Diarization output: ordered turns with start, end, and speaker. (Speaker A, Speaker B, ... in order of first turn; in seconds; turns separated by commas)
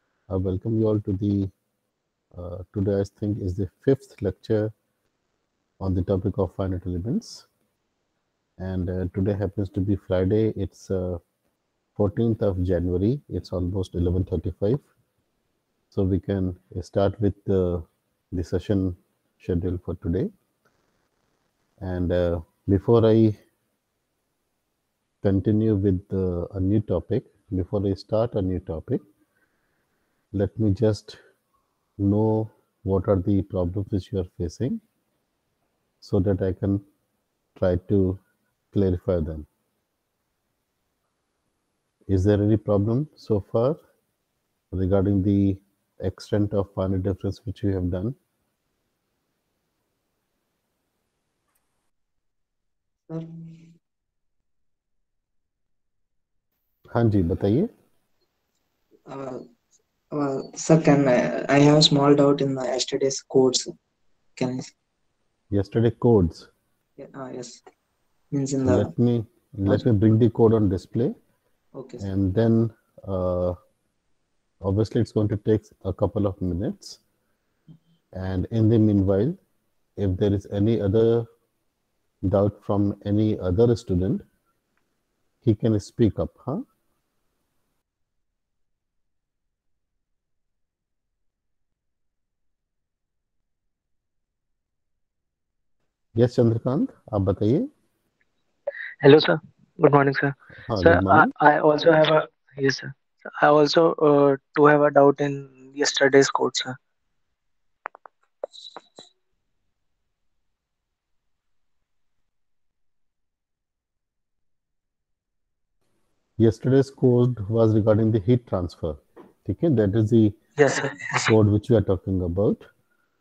Speaker A: 0.3-1.5, Speaker A: 2.3-4.7, Speaker A: 5.8-7.5, Speaker A: 8.6-11.2, Speaker A: 12.0-14.8, Speaker A: 15.9-20.3, Speaker A: 21.8-23.4, Speaker A: 25.2-29.0, Speaker A: 30.3-31.2, Speaker A: 32.0-34.8, Speaker A: 36.0-36.8, Speaker A: 37.5-38.2, Speaker A: 38.7-39.5, Speaker A: 42.1-43.8, Speaker A: 44.7-48.1, Speaker B: 53.1-53.7, Speaker A: 56.9-57.7, Speaker B: 59.1-59.5, Speaker B: 60.1-63.7, Speaker B: 64.3-64.7, Speaker A: 65.5-66.5, Speaker B: 67.0-67.6, Speaker B: 68.3-68.9, Speaker A: 68.6-71.1, Speaker B: 71.8-72.0, Speaker A: 72.0-73.5, Speaker A: 74.6-77.0, Speaker A: 78.1-79.4, Speaker A: 80.0-81.3, Speaker A: 82.2-84.2, Speaker A: 85.4-86.6, Speaker A: 96.2-97.7, Speaker C: 99.0-106.8, Speaker A: 100.7-101.3, Speaker A: 116.4-120.4, Speaker C: 120.6-121.3, Speaker A: 121.2-122.6